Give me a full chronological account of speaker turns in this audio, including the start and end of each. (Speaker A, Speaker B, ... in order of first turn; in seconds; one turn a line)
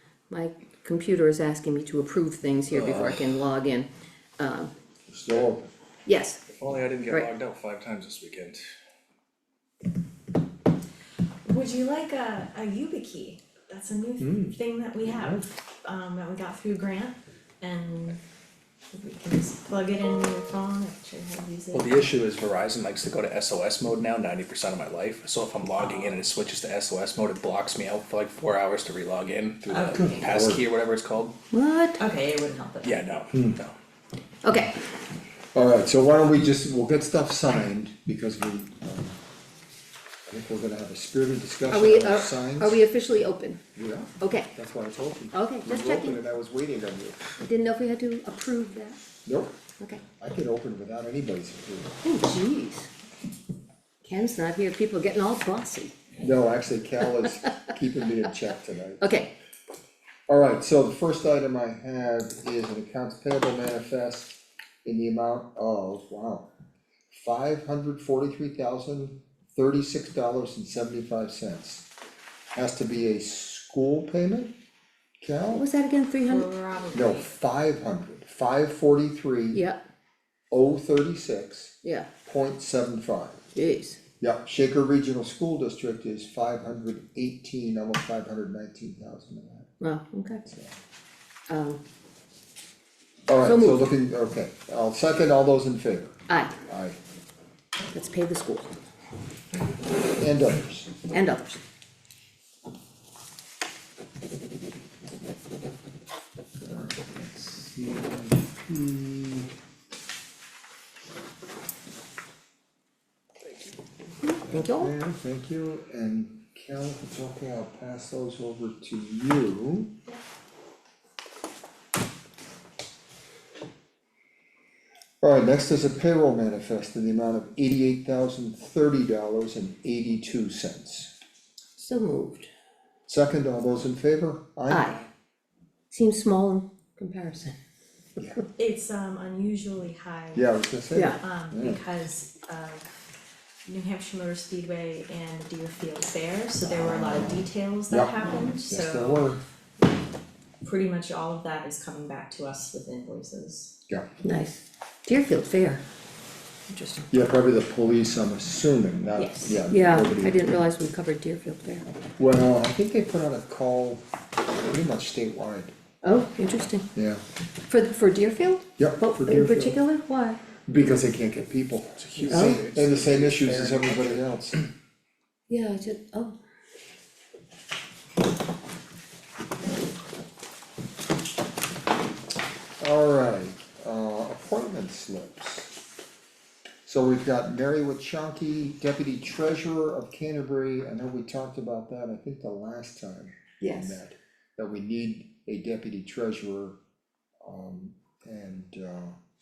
Speaker A: 0.3-4.7
Speaker B: 2.7-3.3
Speaker B: 5.1-5.7
Speaker A: 6.0-6.4
Speaker C: 6.5-8.7
Speaker D: 11.4-18.2
Speaker B: 14.2-15.4
Speaker D: 18.9-22.1
Speaker C: 21.7-31.3
Speaker D: 25.8-26.2
Speaker B: 29.7-30.6
Speaker D: 29.7-30.2
Speaker A: 31.5-32.0
Speaker D: 32.0-33.0
Speaker C: 32.8-33.7
Speaker B: 33.3-33.6
Speaker A: 34.4-34.8
Speaker B: 35.5-39.2
Speaker B: 40.2-42.8
Speaker A: 41.7-43.6
Speaker B: 43.7-47.2
Speaker A: 44.2-44.5
Speaker A: 45.3-46.2
Speaker A: 47.4-49.0
Speaker B: 49.2-52.0
Speaker A: 52.0-52.9
Speaker A: 54.0-55.9
Speaker B: 56.2-59.1
Speaker A: 59.0-59.3
Speaker B: 60.3-66.5
Speaker B: 67.1-71.8
Speaker B: 72.5-74.5
Speaker B: 75.2-75.7
Speaker A: 75.5-76.5
Speaker D: 76.2-77.3
Speaker B: 76.9-79.6
Speaker A: 79.5-79.8
Speaker B: 80.5-81.7
Speaker A: 81.8-82.1
Speaker B: 82.2-83.4
Speaker A: 83.5-84.0
Speaker B: 84.2-89.7
Speaker A: 89.8-90.4
Speaker B: 90.5-90.7
Speaker A: 91.5-91.8
Speaker B: 93.3-97.0
Speaker A: 93.4-93.9
Speaker A: 96.3-96.5
Speaker A: 97.9-98.7
Speaker B: 100.1-100.9
Speaker A: 101.1-101.6
Speaker B: 106.6-109.5
Speaker A: 114.2-114.9
Speaker B: 114.5-119.9
Speaker B: 125.2-131.1
Speaker A: 131.8-132.5
Speaker B: 133.1-135.0
Speaker A: 134.7-135.1
Speaker A: 135.9-137.6
Speaker D: 138.6-140.5
Speaker B: 140.3-141.8
Speaker A: 140.9-141.2
Speaker D: 141.2-142.9
Speaker D: 143.6-149.3
Speaker B: 146.6-149.4
Speaker D: 150.6-153.8
Speaker A: 154.2-155.8
Speaker A: 156.7-157.1
Speaker B: 157.1-160.6
Speaker D: 159.2-159.6
Speaker A: 159.7-162.0
Speaker B: 162.2-165.7
Speaker A: 166.0-166.8
Speaker B: 166.9-167.2
Speaker A: 167.7-170.4
Speaker B: 168.8-169.8
Speaker B: 170.7-174.7
Speaker C: 172.0-174.2
Speaker A: 172.3-172.6
Speaker A: 175.5-176.4
Speaker B: 182.8-185.7
Speaker B: 186.8-196.8
Speaker A: 193.6-194.0
Speaker B: 197.4-199.2